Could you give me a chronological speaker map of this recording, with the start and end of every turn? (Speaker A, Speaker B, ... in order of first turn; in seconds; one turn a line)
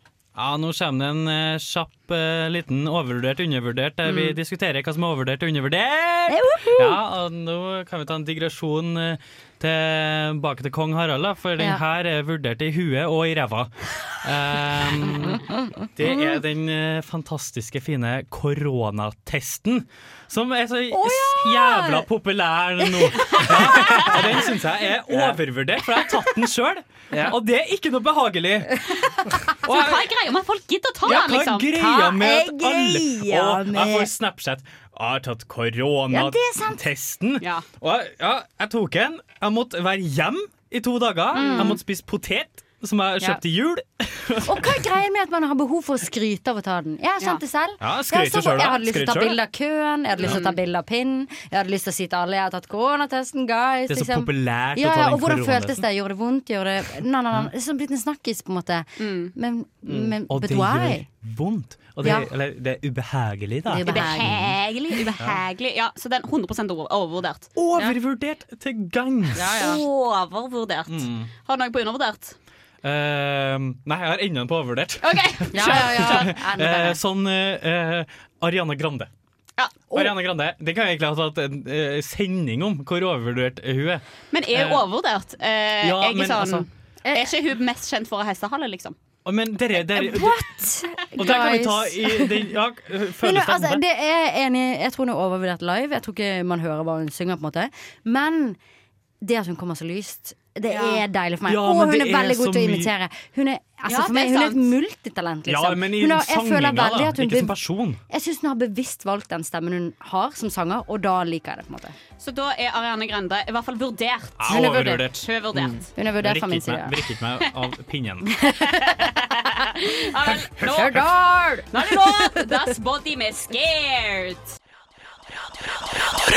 Speaker A: 0.3-28.8
Speaker B: 4.0-4.4
Speaker B: 6.3-7.0
Speaker B: 16.0-16.4
Speaker B: 20.9-22.1
Speaker B: 22.8-24.4
Speaker A: 29.6-30.1
Speaker C: 29.6-31.7
Speaker A: 31.0-44.8
Speaker B: 31.7-34.1
Speaker B: 36.1-36.8
Speaker C: 37.4-37.6
Speaker B: 41.3-41.8
Speaker C: 41.3-41.8
Speaker B: 44.4-61.1
Speaker A: 47.8-49.4
Speaker C: 50.2-50.6
Speaker A: 53.9-55.8
Speaker C: 59.0-59.3
Speaker A: 59.9-64.3
Speaker B: 62.0-62.3
Speaker B: 63.7-64.5
Speaker C: 63.9-67.5
Speaker A: 67.5-69.5
Speaker B: 69.3-69.8
Speaker C: 69.5-72.3
Speaker A: 70.9-71.3
Speaker A: 72.8-79.1
Speaker C: 75.0-76.3
Speaker B: 75.5-77.0
Speaker C: 79.6-80.1
Speaker A: 79.9-84.8
Speaker C: 84.3-89.0
Speaker A: 85.8-86.7
Speaker B: 87.0-87.3
Speaker A: 89.2-90.5
Speaker B: 89.9-92.5
Speaker A: 91.1-93.8
Speaker B: 93.2-98.6
Speaker B: 99.2-107.6
Speaker C: 100.7-101.0
Speaker A: 101.5-102.9
Speaker C: 103.9-104.7
Speaker A: 105.5-108.0
Speaker B: 108.1-111.9
Speaker C: 112.2-115.9
Speaker A: 114.4-118.3
Speaker B: 114.5-115.0
Speaker B: 115.9-116.9
Speaker B: 118.4-119.1
Speaker C: 118.7-121.1
Speaker B: 120.5-122.5
Speaker C: 121.7-124.5